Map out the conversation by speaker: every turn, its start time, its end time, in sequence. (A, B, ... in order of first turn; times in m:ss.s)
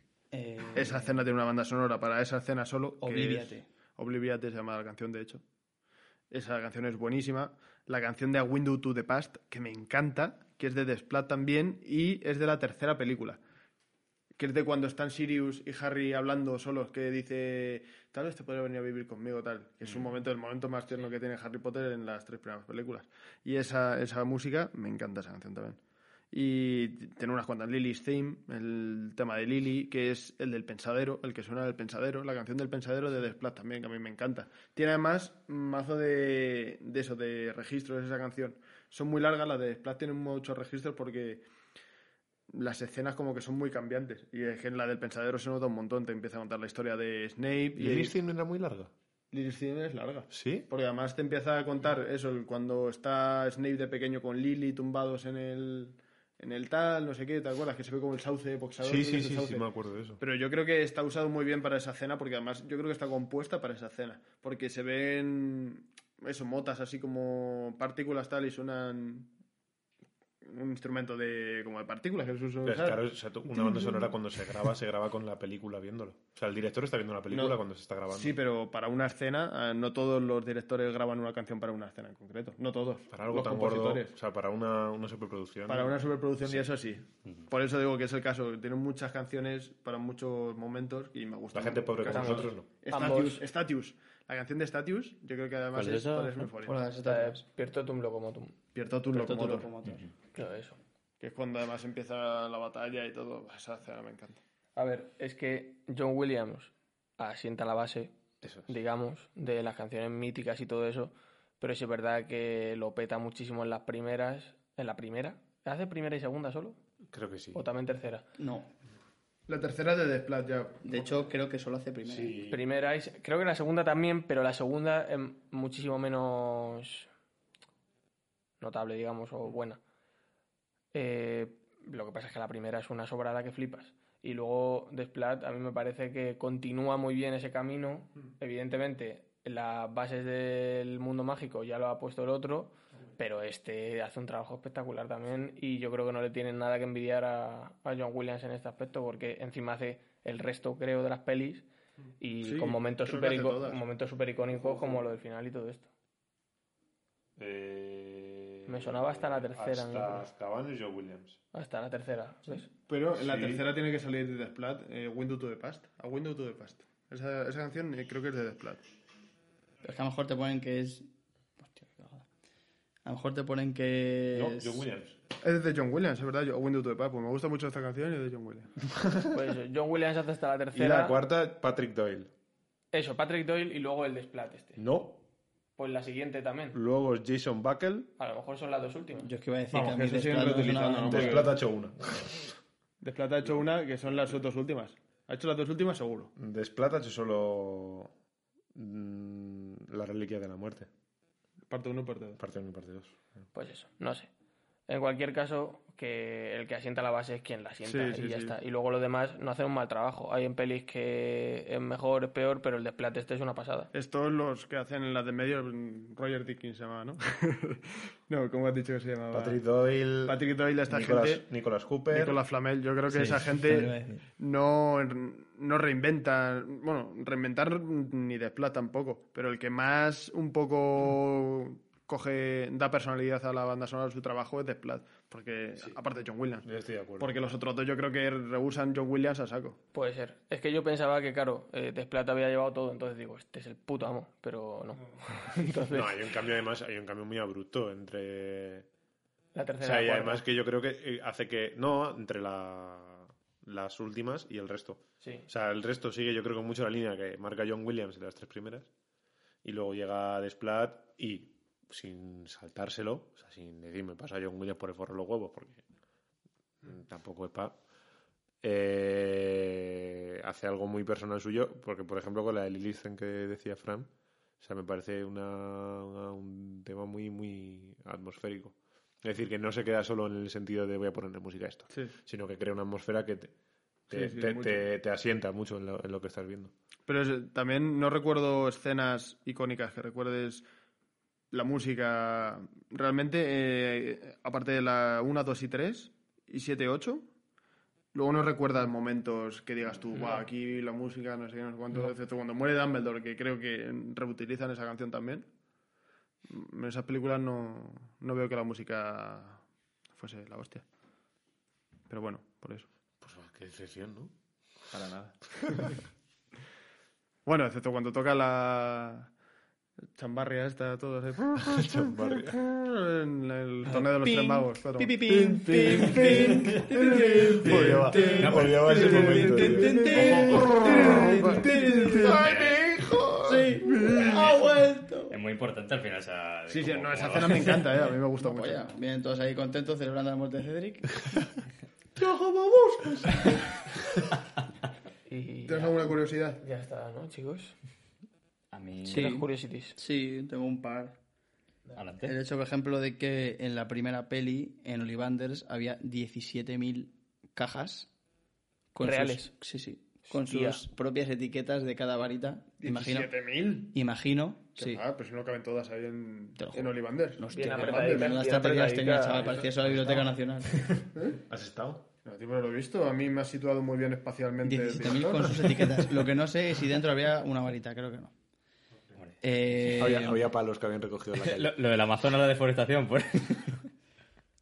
0:00.3-0:01.2 A
0:00.7-0:05.4 B
0:03.0-0:03.7 A
0:06.3-0:13.4 B
0:14.4-0:25.8 B
0:26.3-0:41.4 B
0:42.5-0:48.2 B
0:47.8-0:48.9 C
0:49.3-0:59.7 B
0:50.3-0:50.7 C
0:58.8-1:00.2 C
1:00.2-1:09.3 B
1:10.4-1:13.0 B
1:12.6-1:18.4 C
1:17.3-1:24.1 B
1:23.1-1:26.7 C
1:25.7-1:36.8 B
1:31.5-1:32.7 C
1:32.0-1:33.4 D
1:35.7-1:36.5 E
1:36.6-1:37.4 A
1:37.0-1:38.6 D
1:38.7-1:39.7 B
1:39.1-1:40.0 A
1:40.3-1:40.8 D
1:41.2-1:44.4 B
1:44.8-1:48.1 D
1:48.4-1:48.7 C
1:48.7-1:56.8 D
1:57.1-1:57.6 C
1:57.5-1:58.2 D
1:58.4-1:58.7 A
1:59.5-2:01.1 B
2:00.8-2:02.3 A
2:02.0-2:02.6 C
2:02.5-2:07.1 D
2:08.6-2:09.8 D
2:10.9-2:31.6 D
2:32.2-2:35.9 D
2:32.4-2:33.8 B
2:37.4-2:41.4 C
2:38.7-2:40.2 D
2:41.5-2:42.7 D
2:42.9-2:48.8 B
2:43.2-2:43.6 C
2:49.8-2:51.1 A
2:51.6-2:52.2 A
2:53.0-2:54.9 A
2:54.3-2:55.2 C
2:55.4-2:58.8 B
2:59.0-2:59.3 C
2:59.3-3:01.2 D
3:00.7-3:02.3 C
3:02.9-3:04.8 D
3:04.8-3:05.2 C
3:05.8-3:06.8 D
3:06.7-3:08.1 C
3:08.2-3:09.3 D
3:09.2-3:11.5 A
3:09.7-3:11.6 B
3:11.1-3:12.5 C
3:13.0-3:16.3 B
3:16.4-3:18.1 C
3:18.7-3:20.9 C
3:21.7-3:22.4 B
3:22.4-3:23.1 C
3:23.5-3:24.3 D
3:24.9-3:33.9 D
3:27.8-3:28.6 B
3:33.9-3:39.6 B
3:39.3-3:42.4 C
3:40.2-3:41.4 B
3:42.1-3:56.7 B
3:43.1-3:44.2 A
3:56.6-3:57.3 C
3:57.2-3:59.8 B
3:59.9-4:06.3 D
4:05.9-4:08.9 C
4:09.5-4:10.4 D
4:09.8-4:18.9 C
4:15.2-4:15.5 D
4:19.6-4:25.8 C
4:26.8-4:27.8 C
4:28.6-4:34.1 C
4:34.6-4:43.5 C
4:44.1-4:46.7 C
4:44.1-4:44.8 B
4:47.1-4:50.6 B
4:51.5-4:57.2 B
4:58.1-5:05.5 B
5:00.1-5:00.5 D
5:06.5-5:09.6 B
5:10.2-5:10.8 B
5:12.1-5:12.9 B
5:13.2-5:14.3 C
5:14.9-5:15.9 C
5:17.4-5:19.3 B
5:20.1-5:32.6 B
5:21.5-5:22.6 C
5:23.8-5:32.5 A
5:27.6-5:31.4 C
5:28.4-5:28.7 E
5:32.2-5:33.7 C
5:32.4-5:32.7 E
5:33.4-5:35.4 A
5:33.8-5:34.5 B
5:35.3-5:38.1 E
5:36.7-5:38.8 B
5:38.4-5:41.4 A
5:42.2-5:43.7 A
5:45.2-5:47.8 D
5:45.6-5:46.6 B
5:48.7-5:49.3 E
5:49.1-5:50.0 D
5:49.1-5:51.2 A
5:51.9-5:52.3 E
5:52.2-5:58.1 A
5:58.9-6:03.3 A
5:59.0-5:59.5 D
6:00.3-6:00.8 D
6:02.8-6:03.9 B
6:03.8-6:05.0 A
6:04.8-6:08.4 B
6:06.6-6:10.9 A
6:07.5-6:09.6 D
6:11.5-6:12.0 C
6:12.2-6:16.0 B
6:14.6-6:18.3 A
6:19.2-6:20.2 E
6:19.4-6:20.4 A
6:20.0-6:21.7 C
6:21.4-6:23.8 E